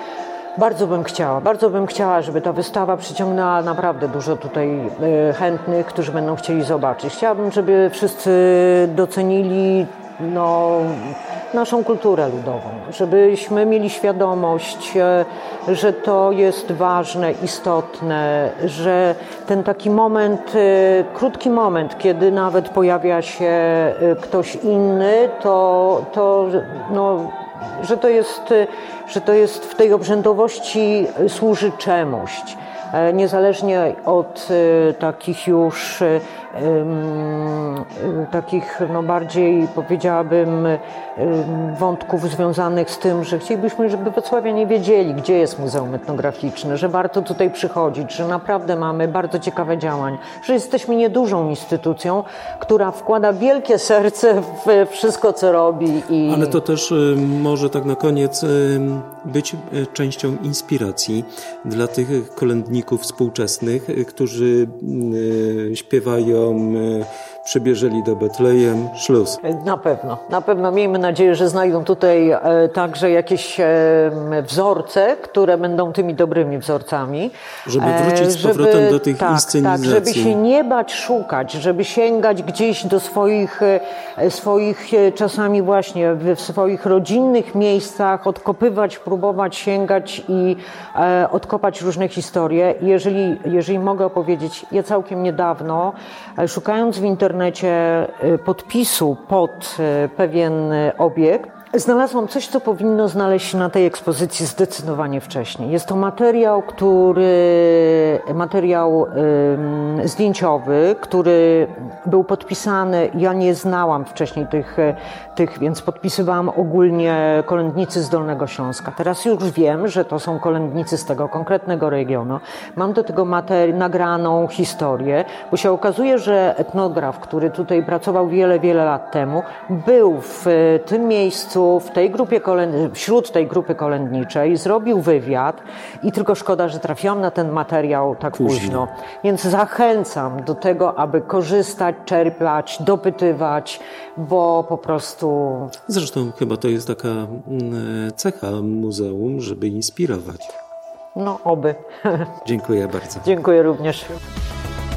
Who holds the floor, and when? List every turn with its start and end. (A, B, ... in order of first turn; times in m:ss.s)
0:00.6-0:56.6 A
0:56.3-1:09.4 B
1:09.4-2:25.8 A
1:17.6-1:20.4 B
2:25.9-2:30.5 B
2:31.1-2:32.3 A
2:32.4-2:33.3 B
2:33.2-2:34.1 A